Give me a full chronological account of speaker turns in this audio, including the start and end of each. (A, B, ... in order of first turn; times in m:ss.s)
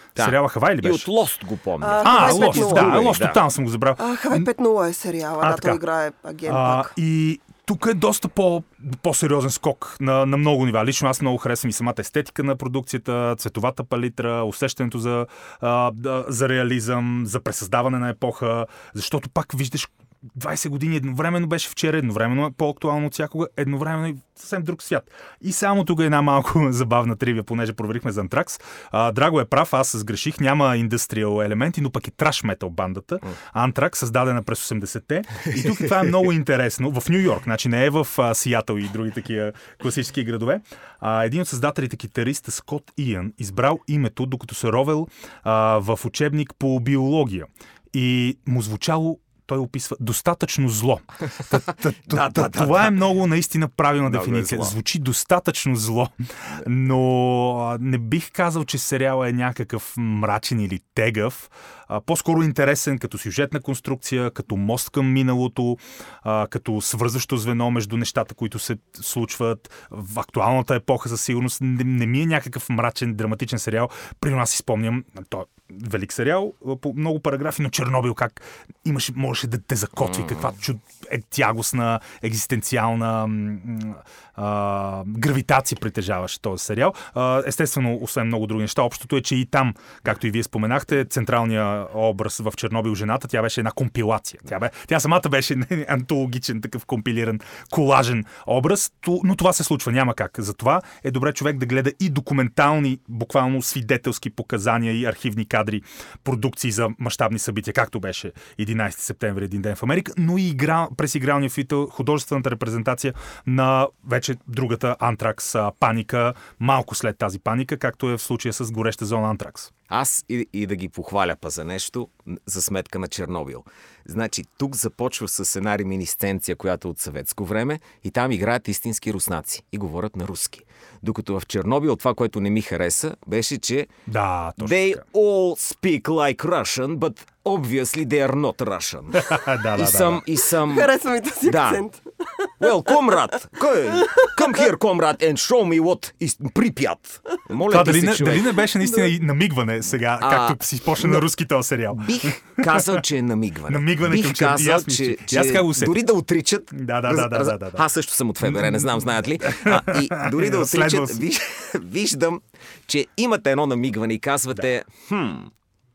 0:00.2-0:01.1 A
0:00.2-0:03.4 B
0:01.8-0:03.0 C
0:02.0-0:04.5 A
0:04.0-0:06.9 C
0:05.4-0:05.8 A
0:06.5-1:59.7 A
0:52.1-0:53.1 B
0:54.0-0:54.8 B
1:20.0-1:20.5 B
1:59.9-2:13.9 B
2:14.1-2:15.0 A
2:14.6-2:20.9 B
2:19.2-2:20.2 A
2:20.6-2:23.1 C
2:21.4-2:21.8 B
2:22.6-2:28.6 B
2:23.9-2:24.6 C
2:27.7-2:33.0 A
2:30.2-2:31.2 B
2:31.9-2:45.5 B
2:33.7-2:36.0 A
2:36.7-2:37.8 A
2:38.4-2:41.2 A